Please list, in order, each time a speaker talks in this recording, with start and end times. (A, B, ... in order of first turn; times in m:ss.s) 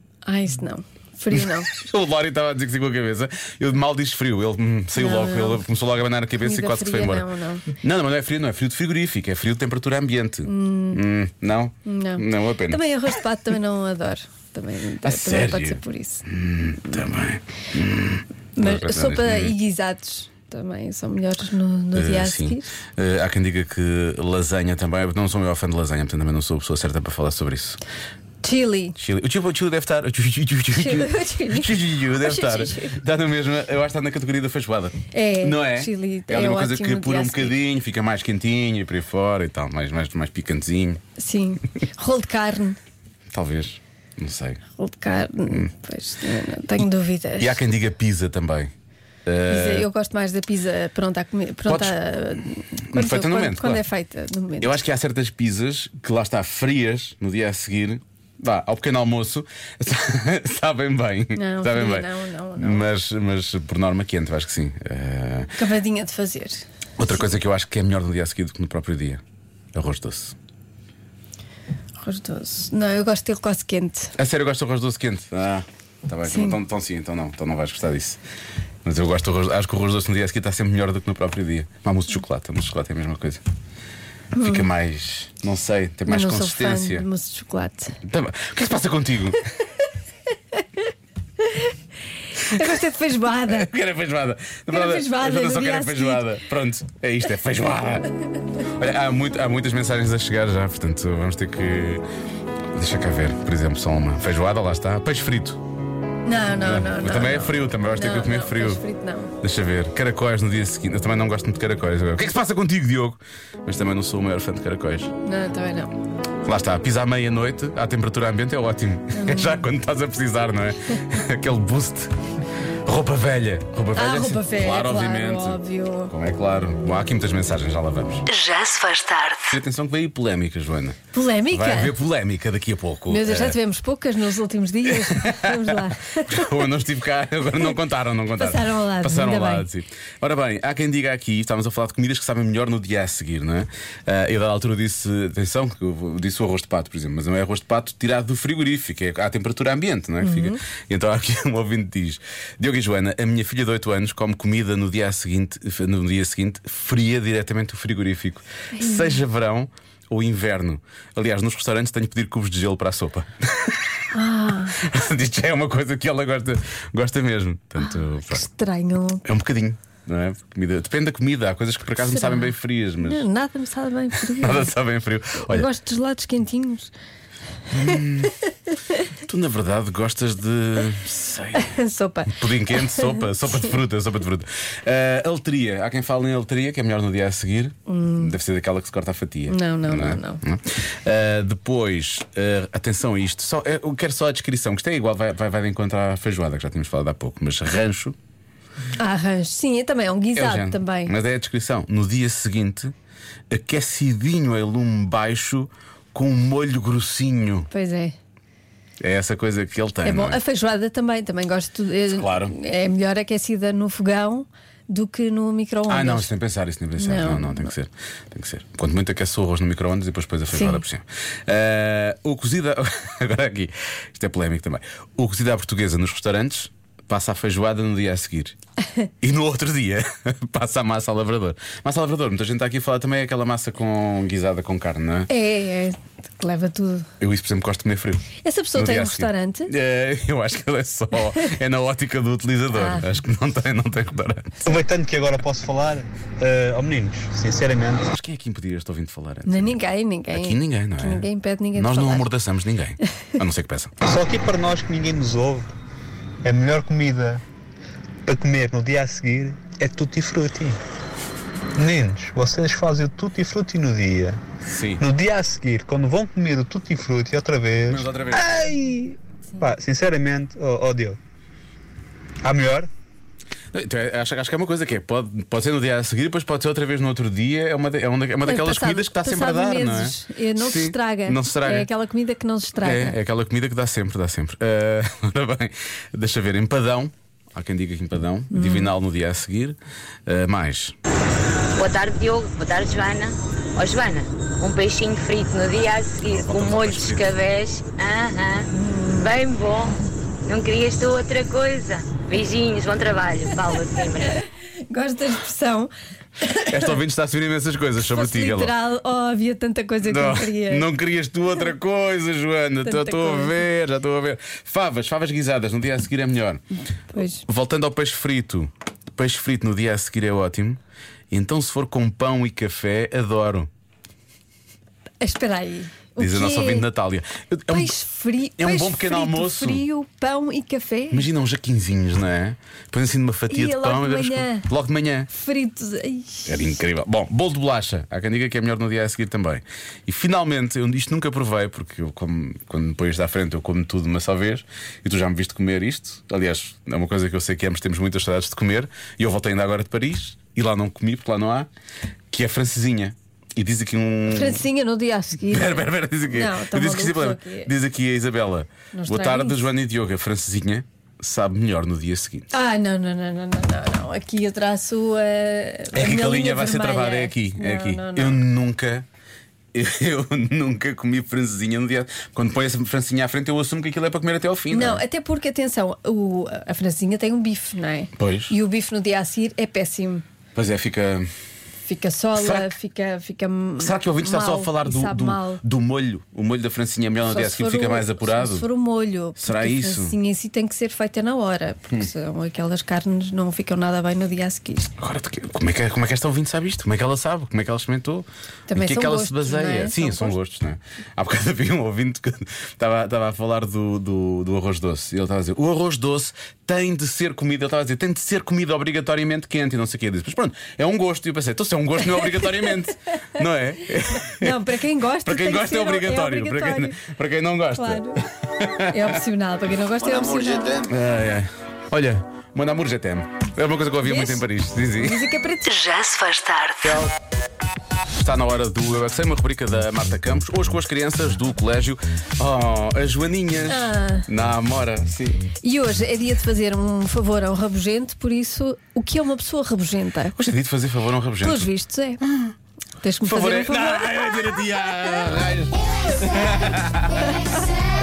0:00.2-0:01.7 A
0:01.3-0:07.3 B
0:05.0-0:05.6 A
0:06.4-0:07.6 A
0:07.8-0:12.8 B
0:10.4-0:11.0 A
0:11.8-0:16.2 A
0:15.0-0:19.6 B
0:18.6-0:22.7 A
0:21.9-0:27.8 B
0:28.4-0:29.0 A
0:29.0-0:41.0 B
0:30.7-0:33.0 A
0:35.1-0:37.6 A
0:41.2-0:42.8 A
0:43.3-0:44.6 B
0:44.8-0:47.6 A
0:47.4-0:48.7 B
0:49.2-0:49.9 B
0:49.5-0:54.7 A
0:51.6-0:52.0 B
0:52.9-0:53.8 B
0:54.6-1:05.5 B
1:01.4-1:02.8 A
1:05.6-1:06.6 A
1:07.0-1:09.2 B
1:09.7-1:10.4 B
1:12.0-1:14.1 A
1:14.2-1:18.2 B
1:16.3-1:16.6 A
1:18.8-1:23.4 B
1:24.3-1:24.7 A
1:24.4-1:27.0 B
1:26.1-1:28.0 A
1:28.0-1:29.4 B
1:31.4-1:31.7 A
1:32.4-1:33.7 A
1:33.5-1:38.1 B
1:34.7-1:36.3 A
1:38.6-1:42.0 B
1:42.7-1:45.6 B
1:46.2-1:49.3 A
1:46.6-1:48.8 B
1:49.4-1:55.1 B
1:55.2-1:55.9 A
1:56.4-2:02.1 B
1:59.1-1:59.6 A
2:02.8-2:08.3 B
2:03.9-2:06.1 A
2:08.3-2:09.5 C
2:09.5-2:13.6 B
2:11.1-2:11.9 A
2:13.1-2:16.5 A
2:14.8-2:43.9 B
2:18.4-2:19.7 A
2:30.2-2:30.6 A
2:38.8-2:39.2 A
2:44.1-2:44.8 A
2:44.8-2:48.4 B
2:47.8-2:49.2 A
2:49.2-2:53.3 B
2:52.0-2:54.7 A
2:54.2-2:55.7 B
2:55.5-2:56.9 A
2:57.7-2:58.3 B
2:59.2-3:01.7 B
3:01.5-3:03.7 A
3:02.3-3:18.2 B
3:07.9-3:08.3 A
3:09.5-3:10.4 A
3:19.0-3:21.1 A
3:20.3-3:22.9 B
3:23.5-3:27.7 B
3:27.7-3:28.2 A
3:29.0-3:30.4 B
3:30.0-3:36.3 A
3:32.1-3:32.5 B
3:35.9-3:48.6 B
3:37.0-3:37.7 A
3:40.5-3:40.8 A
3:49.2-3:55.3 B
3:55.3-3:57.1 A
3:57.2-4:04.6 B
3:58.4-3:59.7 A
4:02.7-4:03.0 A
4:04.6-4:08.1 D
4:08.1-4:09.8 B
4:09.5-4:12.3 A
4:10.3-4:13.9 B
4:14.0-4:15.7 D
4:16.4-4:17.4 D
4:18.2-4:20.8 D
4:21.8-4:24.4 D
4:24.7-4:25.0 B
4:25.0-4:31.2 D
4:27.9-4:28.6 B
4:32.4-4:32.9 D
4:33.7-4:41.9 B
4:38.4-4:43.2 A
4:42.8-4:51.0 B
4:48.5-4:48.9 A
4:51.7-4:59.9 E
4:56.2-4:57.3 B
4:58.7-4:59.3 A
5:00.4-5:04.4 E
5:04.9-5:05.9 A
5:06.4-5:06.9 A
5:06.7-5:08.7 B
5:08.0-5:10.9 A
5:10.0-5:23.7 B
5:12.8-5:13.6 A
5:17.1-5:17.4 A
5:25.2-5:26.8 A
5:26.2-5:28.0 B
5:27.7-5:31.3 A
5:28.6-5:29.8 B
5:31.1-5:35.3 B
5:33.5-5:34.7 A
5:35.3-5:36.7 A
5:36.4-5:51.7 B
5:52.3-5:54.6 B
5:54.3-5:57.7 A
5:55.5-6:02.5 B
5:58.9-5:59.7 A
6:02.5-6:08.4 A
6:05.9-6:09.0 B
6:09.7-6:15.0 B
6:14.7-6:20.2 A
6:18.2-6:18.5 B
6:20.5-6:21.3 B
6:21.8-6:25.6 A
6:22.3-6:22.7 B
6:23.8-6:28.7 B
6:27.2-6:34.9 A
6:29.4-6:30.2 B
6:35.0-6:54.7 B
6:38.7-6:40.4 A
6:54.4-6:57.0 A
6:55.2-6:59.1 B
6:57.8-6:58.2 A
6:58.9-7:00.8 A
7:00.2-7:05.2 B
7:04.0-7:05.7 A
7:05.6-7:07.0 C
7:06.8-7:07.1 B
7:08.2-7:15.4 B
7:13.7-7:14.3 A
7:15.6-7:20.4 A
7:20.3-7:22.5 B
7:21.4-7:22.2 A
7:23.0-7:24.1 A
7:23.2-7:27.3 B